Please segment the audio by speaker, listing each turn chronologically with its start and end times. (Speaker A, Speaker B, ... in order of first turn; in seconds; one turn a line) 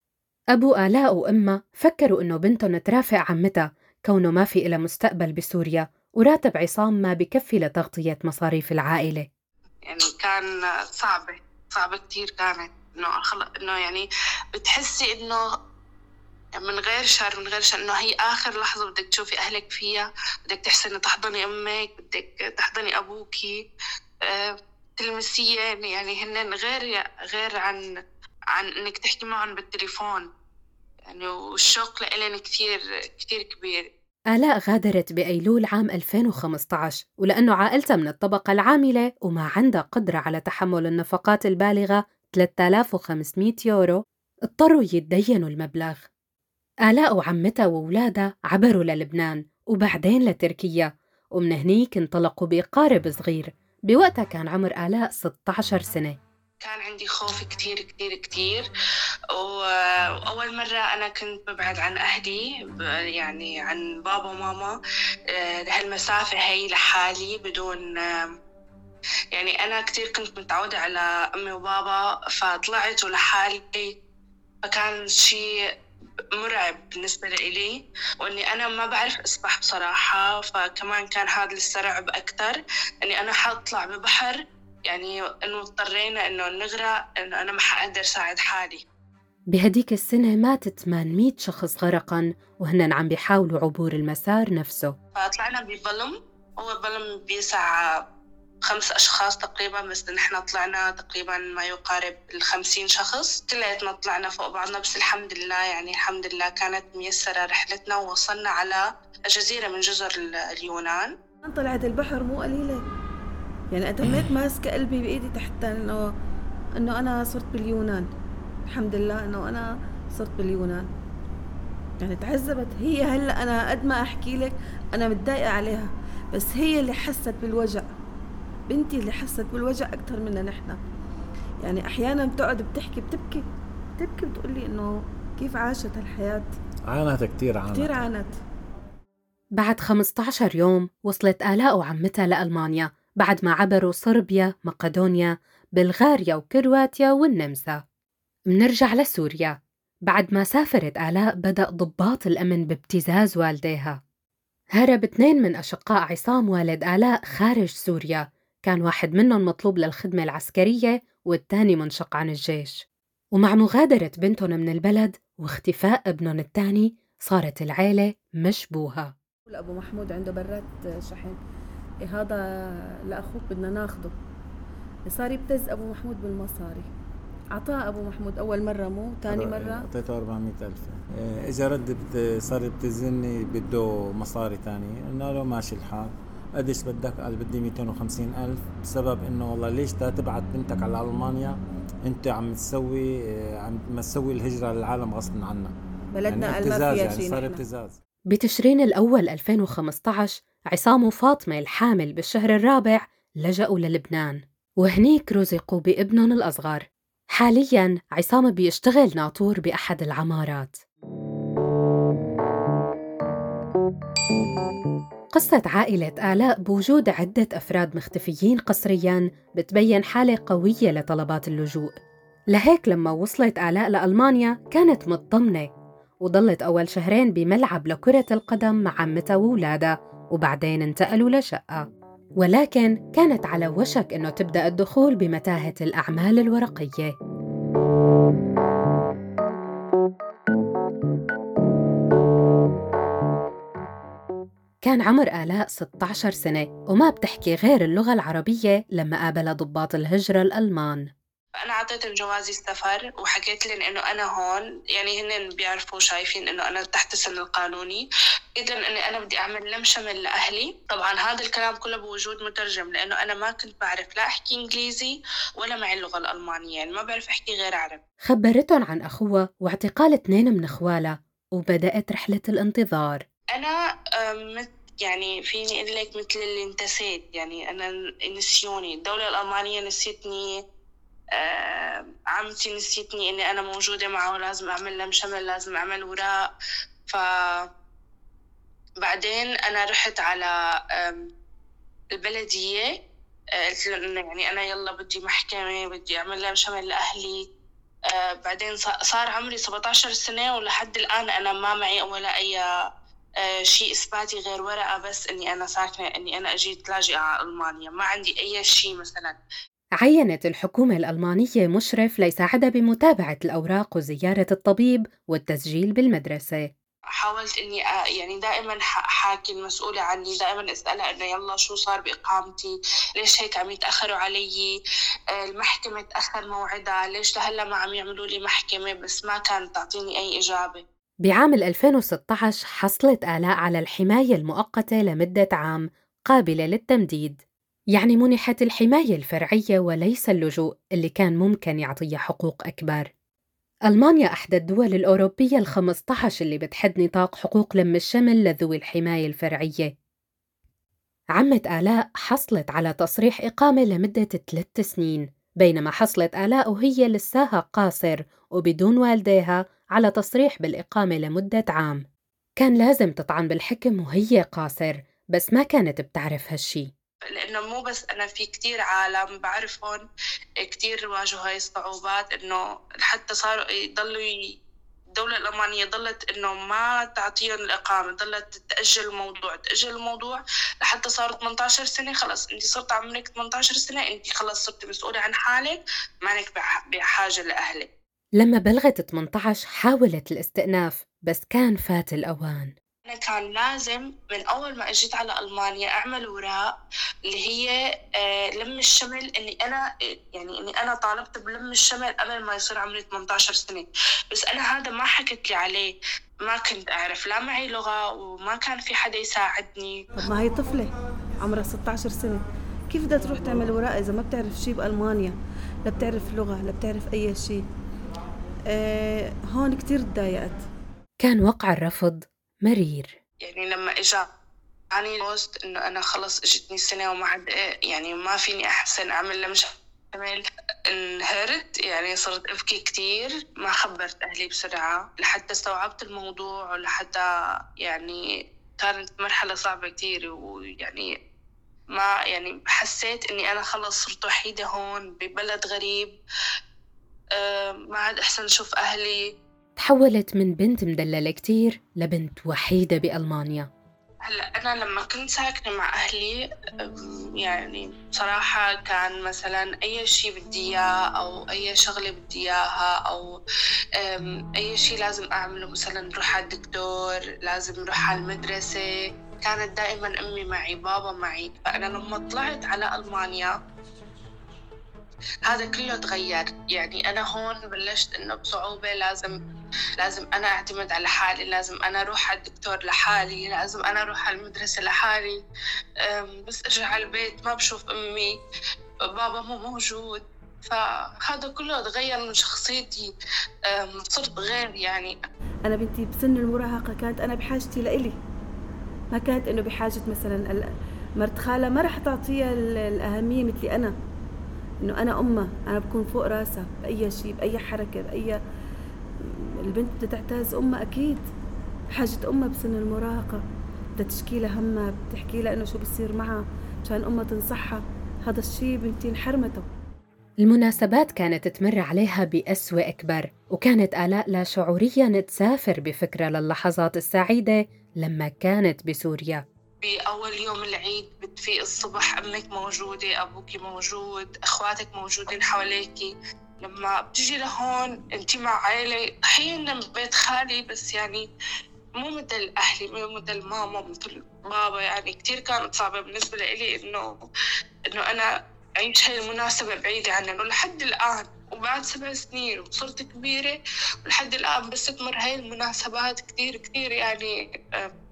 Speaker A: 0.5-9.3
Speaker B: 9.9-15.4
Speaker B: 16.6-23.5
Speaker B: 24.3-27.8
Speaker B: 28.5-30.2
Speaker B: 31.1-33.8
Speaker A: 34.3-43.9
Speaker A: 44.5-46.1
Speaker A: 46.9-56.1
Speaker B: 56.6-58.7
Speaker B: 59.4-59.6
Speaker B: 60.3-64.7
Speaker B: 65.4-68.3
Speaker B: 69.3-73.9
Speaker B: 74.6-75.4
Speaker B: 76.4-84.3
Speaker B: 84.9-88.8
Speaker A: 89.5-94.9
Speaker B: 95.2-97.8
Speaker B: 98.7-111.1
Speaker C: 111.5-112.8
Speaker C: 113.7-116.0
Speaker C: 116.8-118.1
Speaker C: 118.7-120.9
Speaker C: 122.0-127.9
Speaker C: 128.7-130.8
Speaker C: 131.6-133.4
Speaker C: 134.0-136.5
Speaker D: 136.9-138.0
Speaker C: 137.7-138.3
Speaker A: 139.6-147.8
Speaker A: 148.5-154.0
Speaker A: 154.8-162.8
Speaker A: 163.4-169.1
Speaker C: 169.5-171.4
Speaker C: 172.1-172.4
Speaker C: 173.1-174.1
Speaker C: 175.1-176.9
Speaker C: 177.5-179.8
Speaker D: 179.3-193.0
Speaker D: 193.6-195.7
Speaker C: 196.1-197.6
Speaker D: 196.3-198.0
Speaker A: 198.3-206.8
Speaker A: 207.4-210.8
Speaker A: 215.3-221.9
Speaker A: 222.5-225.7
Speaker A: 226.2-231.8
Speaker A: 232.4-237.1
Speaker A: 244.8-251.1
Speaker B: 251.6-258.1
Speaker B: 258.6-268.0
Speaker A: 268.3-273.2
Speaker B: 273.5-280.5
Speaker B: 281.4-286.3
Speaker B: 287.1-287.6
Speaker B: 289.0-291.2
Speaker B: 292.2-292.9
Speaker B: 293.7-297.4
Speaker B: 298.3-302.6
Speaker B: 303.5-309.4
Speaker A: 310.0-316.7
Speaker B: 317.2-324.7
Speaker B: 325.4-330.8
Speaker A: 331.2-337.4
Speaker A: 337.9-343.1
Speaker A: 343.9-349.9
Speaker A: 351.4-362.0
Speaker A: 362.6-366.9
Speaker B: 367.3-370.0
Speaker B: 370.6-374.3
Speaker B: 375.1-387.9
Speaker A: 388.4-392.7
Speaker B: 393.1-396.6
Speaker B: 397.3-410.0
Speaker C: 410.2-417.6
Speaker C: 418.7-420.6
Speaker A: 421.2-423.1
Speaker B: 423.4-424.2
Speaker B: 424.9-430.4
Speaker B: 430.9-437.2
Speaker B: 437.8-438.2
Speaker B: 438.8-441.1
Speaker B: 441.9-446.1
Speaker B: 447.4-449.2
Speaker A: 449.8-453.6
Speaker B: 454.2-456.4
Speaker B: 457.4-463.3
Speaker B: 464.0-468.8
Speaker B: 469.4-473.5
Speaker B: 475.4-479.4
Speaker B: 480.0-485.4
Speaker B: 486.1-488.3
Speaker B: 489.1-493.1
Speaker B: 493.7-495.1
Speaker C: 495.6-498.2
Speaker C: 499.1-500.7
Speaker C: 501.2-503.9
Speaker C: 504.8-508.4
Speaker C: 509.3-511.2
Speaker C: 511.9-513.4
Speaker C: 514.0-519.7
Speaker A: 520.4-529.4
Speaker B: 529.8-536.1
Speaker B: 536.6-541.2
Speaker B: 542.0-547.1
Speaker B: 547.9-548.3
Speaker B: 548.8-557.9